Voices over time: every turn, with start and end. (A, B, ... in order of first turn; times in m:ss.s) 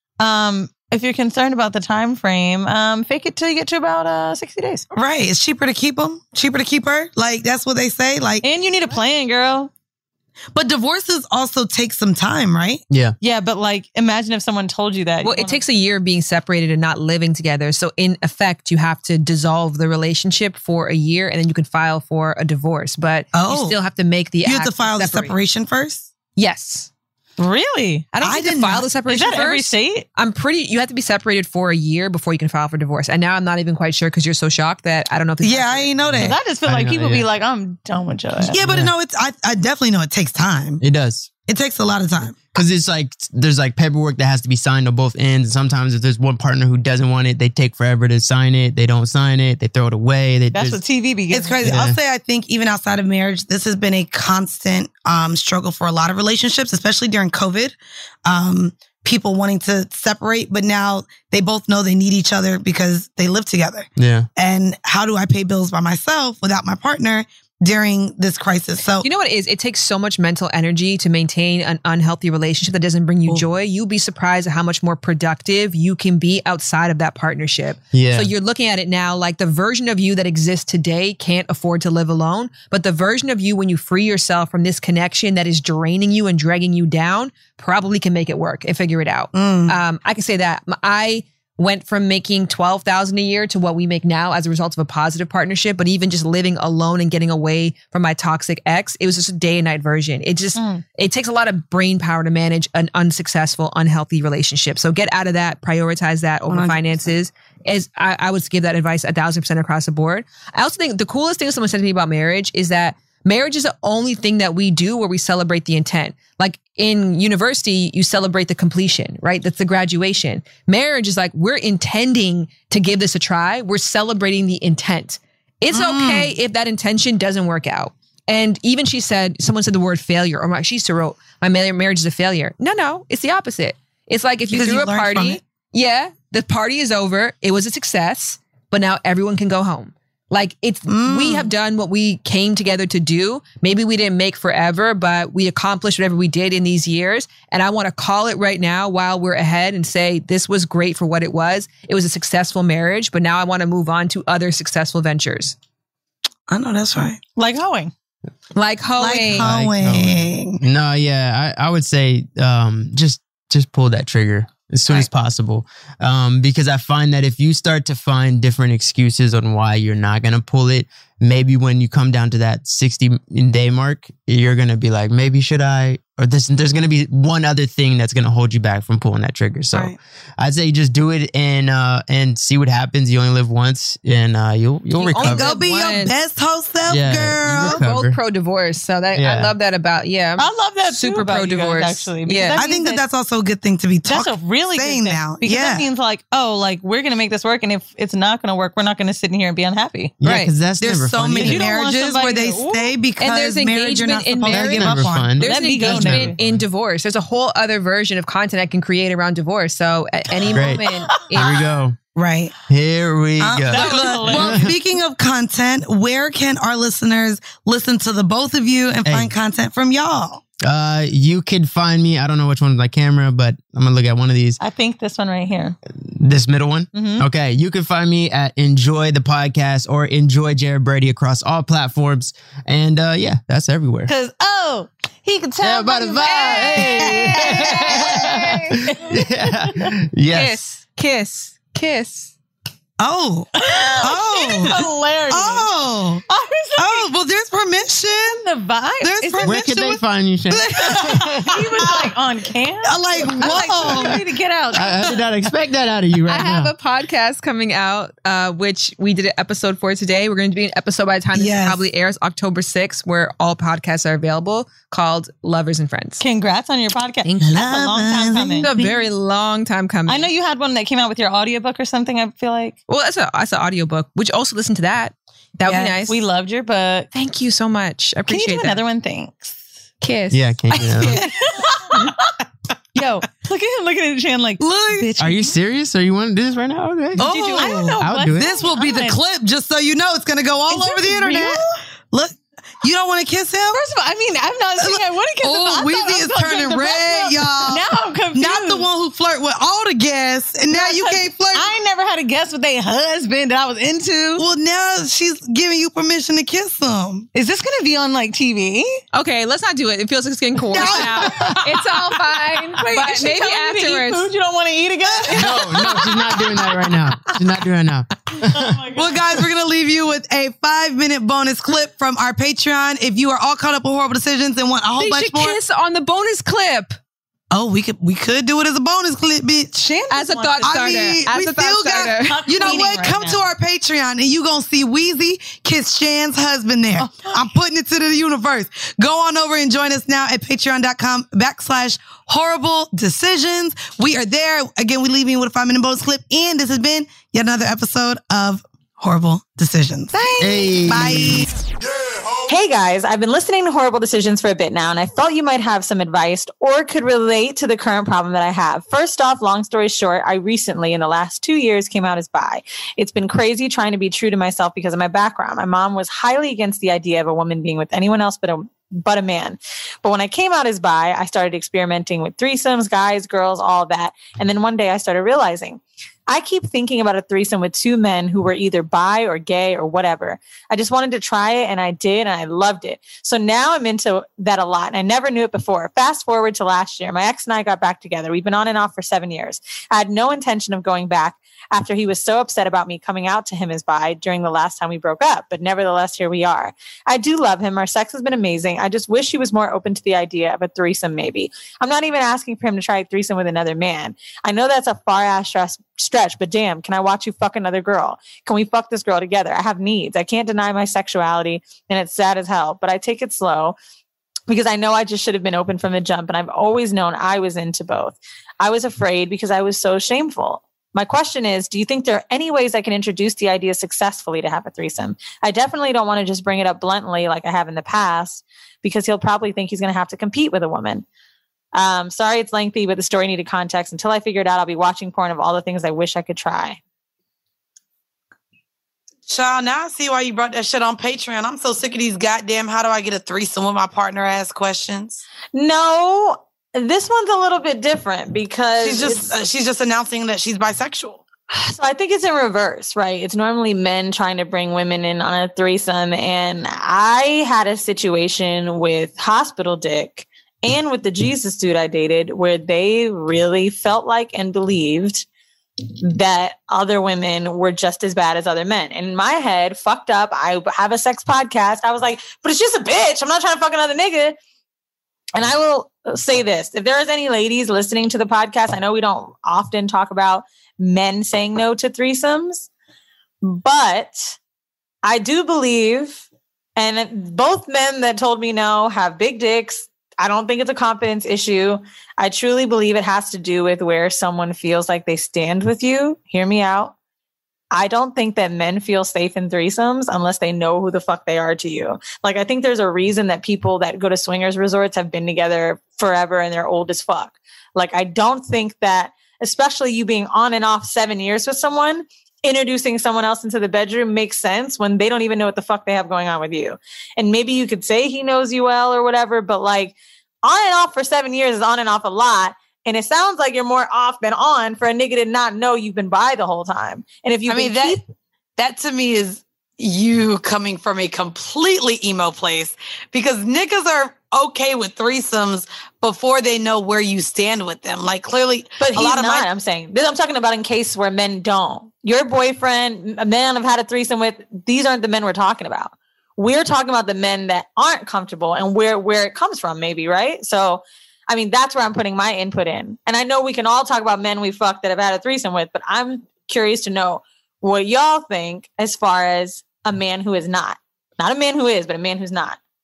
0:00.2-0:04.8 A
0:04.9-0:08.4 B
0:08.4-0:09.7 A
0:10.5-0:12.8 B
0:13.2-0:15.6 A
0:15.2-0:25.3 C
0:23.3-0:23.8 B
0:24.4-0:26.1 B
0:26.4-0:26.9 C
0:27.4-0:28.1 A
0:28.1-0:35.9 C
0:28.2-0:28.9 B
0:29.1-0:30.0 A
0:35.4-0:36.4 B
0:36.0-0:37.2 D
0:36.2-0:38.6 A
0:38.4-0:40.8 B
0:38.6-0:38.9 D
0:40.8-0:41.3 D
0:41.5-0:42.5 B
0:42.5-0:50.8 D
0:50.5-0:51.6 A
0:51.3-1:09.1 B
0:51.6-0:52.0 D
1:04.0-1:04.3 D
1:09.0-2:35.5 C
1:17.9-1:18.3 D
1:29.3-1:29.8 B
1:40.5-1:40.8 A
1:46.5-1:47.1 B
2:05.7-2:06.3 B
2:14.5-2:15.4 B
2:20.9-2:21.5 B
2:36.5-2:37.2 B
2:37.4-2:37.9 A
2:38.5-2:39.5 C
2:39.0-2:40.6 B
2:39.4-3:05.5 D
3:05.0-3:06.1 C
3:05.2-3:07.8 B
3:06.9-3:08.2 D
3:07.6-3:12.6 C
3:09.1-3:09.5 D
3:10.4-3:13.0 A
3:12.6-3:15.8 B
3:14.0-3:20.1 A
3:20.2-3:21.6 D
3:20.2-3:20.5 C
3:20.8-3:25.3 B
3:21.4-3:22.9 A
3:23.2-3:31.6 C
3:24.5-3:26.6 D
3:25.4-3:26.3 A
3:30.5-3:32.0 D
3:32.1-3:32.5 B
3:32.7-3:34.7 D
3:33.4-3:40.4 B
3:33.7-3:34.8 A
3:39.0-3:39.3 D
3:40.6-3:44.6 D
3:44.6-3:45.8 A
3:46.0-3:54.1 D
3:46.9-3:47.2 A
3:54.1-3:59.9 A
3:55.6-4:00.6 D
3:56.2-3:58.8 C
4:00.3-4:02.3 C
4:03.0-4:06.2 B
4:03.6-4:05.7 A
4:06.3-4:07.1 A
4:06.8-4:08.4 B
4:08.2-4:09.6 A
4:09.0-4:12.1 B
4:09.4-4:11.5 D
4:11.4-4:15.3 A
4:12.8-4:14.2 B
4:13.8-4:14.2 D
4:14.7-4:16.7 D
4:16.3-4:26.2 C
4:21.3-4:21.8 B
4:26.2-4:28.7 A
4:27.4-4:29.0 B
4:28.6-4:30.3 C
4:30.1-4:32.8 A
4:32.9-4:36.2 C
4:35.7-4:36.0 B
4:36.1-4:37.1 A
4:37.1-4:38.8 C
4:38.3-4:39.6 A
4:40.0-4:41.3 C
4:40.3-4:41.2 D
4:41.0-4:42.4 A
4:42.9-4:45.6 A
4:44.6-4:45.1 B
4:45.2-4:48.6 D
4:47.2-4:49.2 A
4:47.2-4:53.8 B
4:50.7-4:51.8 A
4:53.7-4:58.9 A
4:54.8-5:01.7 B
5:00.7-5:04.4 A
5:04.4-5:07.3 B
5:07.3-5:09.0 A
5:09.1-5:14.3 C
5:10.7-5:11.6 B
5:10.7-5:12.2 A
5:12.7-5:16.6 A
5:15.0-5:15.4 B
5:15.3-5:18.8 D
5:15.5-5:16.1 C
5:18.3-5:19.4 A
5:18.9-5:25.6 B
5:25.0-5:27.0 C
5:27.5-5:29.8 B
5:29.7-5:31.1 A
5:30.1-5:32.8 C
5:30.6-5:50.1 B
5:32.2-5:33.4 A
5:37.0-5:37.5 A
5:50.1-5:50.8 A
5:50.4-5:51.5 D
5:50.9-5:51.5 B
5:52.4-6:53.8 E
6:54.5-7:11.0 E
7:11.7-7:16.8 E
7:19.3-7:25.2 B
7:25.5-7:29.3 E
7:28.8-7:31.2 B
7:31.5-7:45.2 E
7:46.0-7:54.4 E
7:55.4-8:02.7 E
8:03.4-8:04.4 E
8:05.0-8:06.2 E
8:06.8-8:16.9 E
8:17.7-8:48.0 E
8:47.5-8:48.0 B
8:48.6-8:59.5 B
8:58.8-9:22.6 E